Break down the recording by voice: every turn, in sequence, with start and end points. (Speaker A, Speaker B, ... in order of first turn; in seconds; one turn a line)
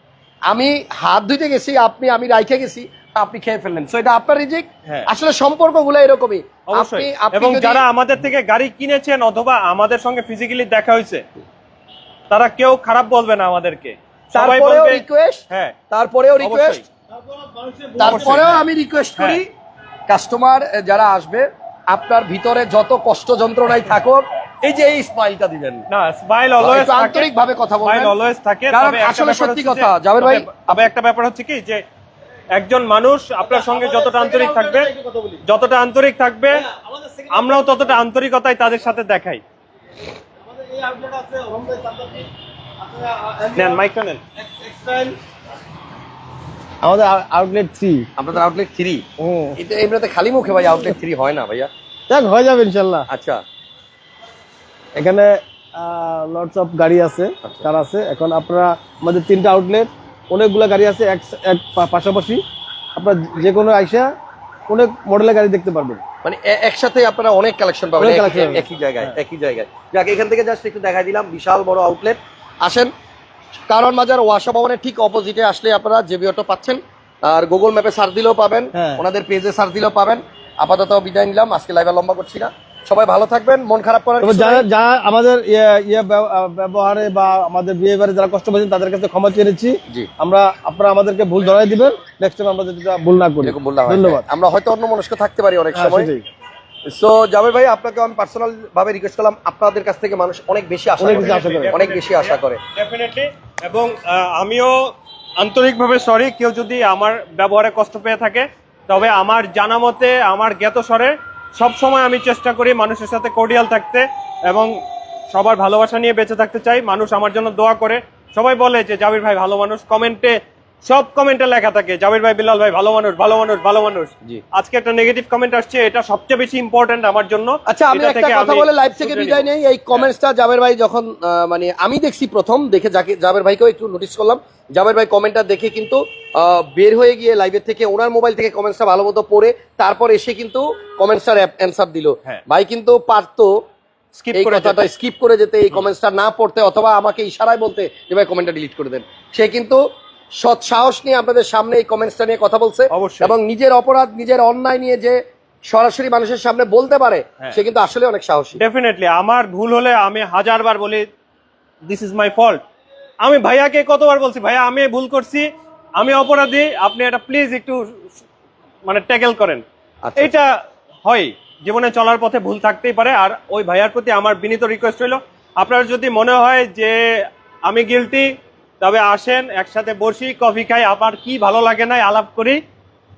Speaker A: 0.5-7.8
Speaker B: 6.7-11.2
Speaker B: 12.3-15.7
Speaker A: 14.3-16.8
Speaker B: 16.4-16.8
Speaker C: 17.1-18.4
Speaker A: 18.0-19.5
Speaker B: 18.0-18.6
Speaker A: 20.1-25.9
Speaker B: 25.9-27.3
Speaker A: 26.6-28.1
Speaker B: 27.8-31.8
Speaker A: 28.7-30.8
Speaker B: 32.5-34.9
Speaker C: 33.4-35.4
Speaker B: 35.4-36.6
Speaker C: 36.5-38.0
Speaker B: 37.3-39.4
Speaker C: 40.4-43.8
Speaker B: 43.5-44.2
Speaker C: 44.4-45.2
Speaker C: 46.8-48.1
Speaker A: 48.2-49.0
Speaker C: 49.2-49.6
Speaker A: 49.5-51.7
Speaker C: 52.1-53.1
Speaker A: 53.1-53.4
Speaker C: 54.9-62.4
Speaker C: 62.9-64.1
Speaker C: 64.7-66.0
Speaker A: 66.2-72.9
Speaker C: 68.0-69.1
Speaker A: 73.7-84.7
Speaker C: 78.7-79.0
Speaker C: 84.2-94.2
Speaker A: 93.4-96.1
Speaker C: 95.7-96.3
Speaker A: 96.9-102.6
Speaker C: 101.0-101.8
Speaker B: 101.0-114.8
Speaker B: 115.3-130.1
Speaker A: 127.7-143.6
Speaker B: 144.1-144.9
Speaker A: 144.3-149.8
Speaker A: 150.4-158.6
Speaker B: 152.9-153.3
Speaker B: 158.6-161.1
Speaker B: 161.8-162.6
Speaker B: 163.2-165.5
Speaker B: 166.0-168.2
Speaker B: 168.8-169.6
Speaker A: 170.0-170.3
Speaker B: 170.2-182.6